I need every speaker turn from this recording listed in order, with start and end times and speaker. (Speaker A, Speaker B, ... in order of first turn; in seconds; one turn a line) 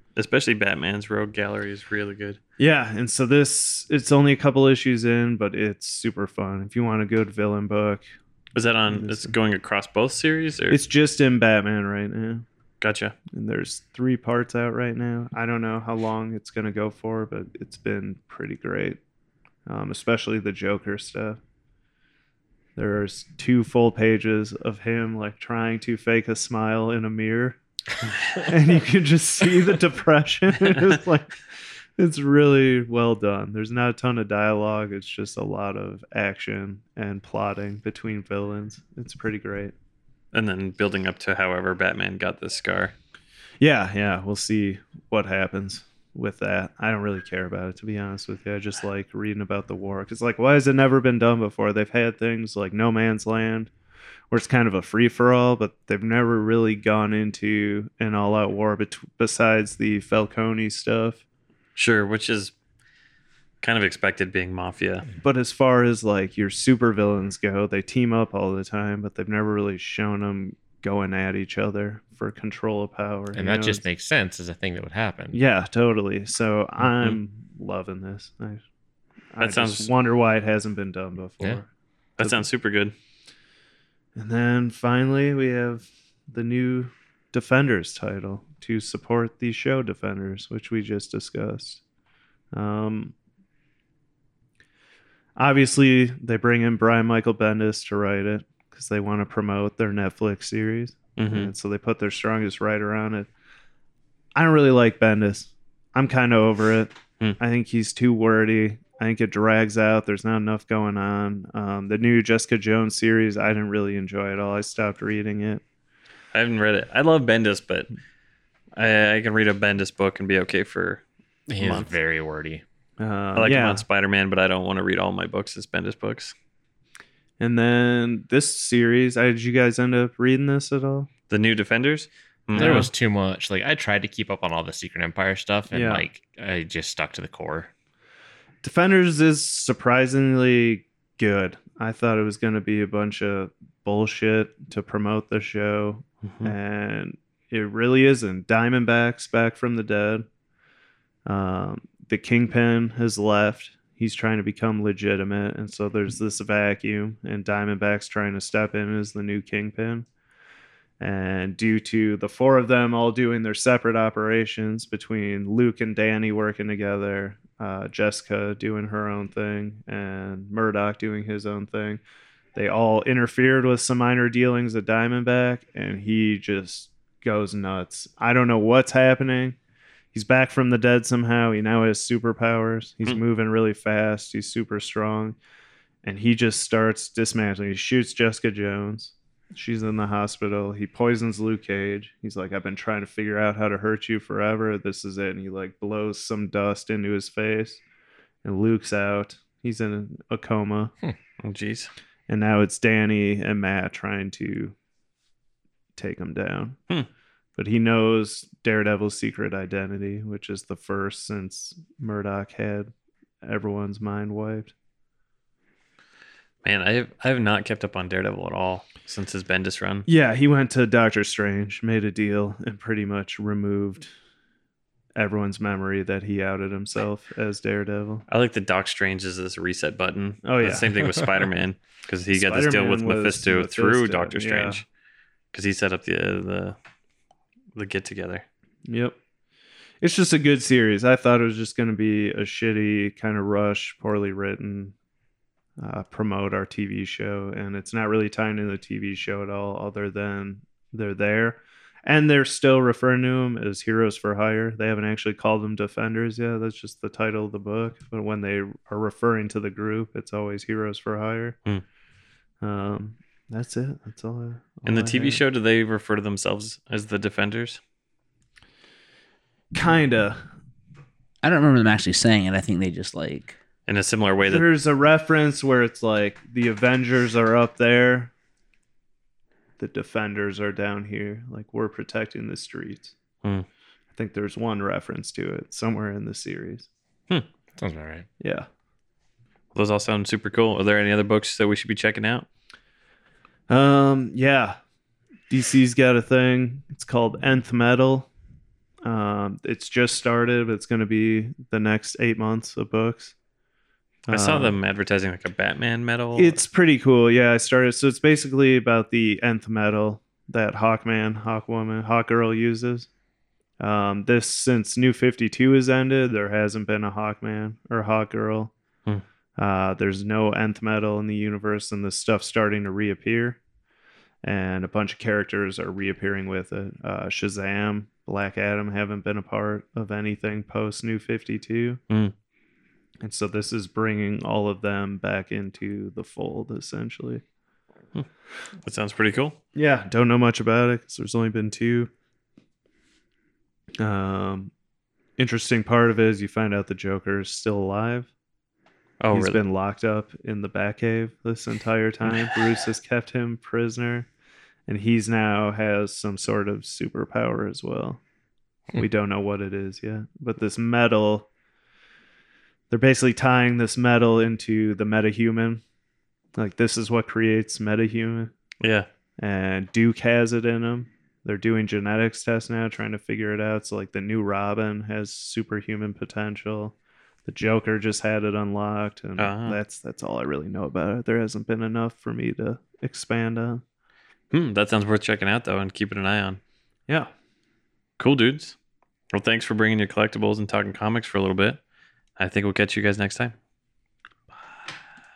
Speaker A: 0.1-2.4
Speaker B: 2.6-8.1
Speaker A: 8.6-10.8
Speaker B: 8.9-9.3
Speaker B: 10.7-12.4
Speaker A: 12.8-13.1
Speaker B: 13.3-19.0
Speaker B: 19.6-21.4
Speaker B: 22.8-27.6
Speaker B: 28.3-31.4
Speaker B: 32.0-39.7
Speaker A: 40.3-42.9
Speaker B: 43.6-53.7
Speaker B: 54.3-61.2
Speaker A: 61.8-62.5
Speaker A: 63.6-65.1
Speaker B: 65.2-73.8
Speaker C: 73.3-75.4
Speaker B: 75.3-78.6
Speaker B: 79.3-81.7
Speaker A: 79.4-79.9
Speaker A: 82.2-82.9
Speaker B: 82.2-82.5
Speaker B: 84.2-91.8
Speaker B: 92.5-93.1
Speaker B: 95.4-103.3
Speaker A: 101.2-101.5
Speaker B: 104.3-115.6
Speaker A: 116.3-117.9
Speaker A: 118.8-121.0
Speaker C: 121.5-122.6
Speaker A: 121.6-121.9
Speaker B: 123.0-123.8
Speaker A: 123.3-126.3
Speaker B: 127.4-131.1
Speaker A: 131.3-132.9
Speaker C: 132.6-137.7
Speaker B: 132.6-132.9
Speaker B: 135.7-136.1
Speaker B: 138.6-150.3
Speaker A: 146.3-146.5
Speaker B: 151.3-160.1
Speaker B: 161.0-172.0
Speaker B: 172.6-179.6
Speaker B: 180.1-185.4
Speaker B: 186.0-197.8
Speaker B: 198.4-200.9
Speaker A: 201.4-201.9
Speaker B: 202.3-204.8
Speaker B: 206.0-206.8
Speaker B: 207.6-212.9
Speaker B: 213.4-214.7
Speaker A: 216.6-220.1
Speaker B: 220.1-224.1
Speaker B: 225.1-228.2
Speaker A: 228.3-234.8
Speaker B: 230.4-230.9
Speaker B: 232.3-234.8
Speaker A: 235.5-236.8
Speaker A: 237.8-238.4
Speaker B: 238.9-239.2
Speaker B: 240.0-244.9
Speaker B: 245.8-261.6
Speaker B: 262.6-265.4
Speaker A: 264.9-267.8
Speaker B: 269.7-270.4
Speaker D: 271.4-273.6
Speaker A: 273.9-274.6
Speaker B: 274.4-278.3
Speaker B: 279.8-283.1
Speaker B: 284.1-286.9
Speaker C: 287.8-288.3
Speaker B: 288.4-288.7
Speaker A: 289.8-292.5
Speaker B: 293.7-294.8
Speaker B: 295.5-298.3
Speaker B: 299.0-303.3
Speaker A: 304.3-306.6
Speaker B: 304.3-304.8
Speaker B: 306.4-313.1
Speaker B: 313.8-318.7
Speaker B: 319.6-323.6
Speaker B: 324.4-332.0
Speaker B: 333.2-337.4
Speaker A: 338.8-339.6
Speaker B: 339.8-342.1
Speaker B: 344.0-344.7
Speaker B: 345.4-348.3
Speaker A: 349.2-349.6
Speaker B: 349.3-354.3
Speaker B: 354.9-358.2
Speaker B: 358.9-361.5
Speaker B: 362.9-365.8
Speaker B: 366.6-368.5
Speaker A: 368.8-369.1
Speaker B: 369.4-376.9
Speaker B: 377.5-383.8
Speaker A: 379.4-379.8
Speaker A: 384.5-386.6
Speaker A: 388.2-388.8
Speaker A: 389.3-391.8
Speaker A: 392.4-393.6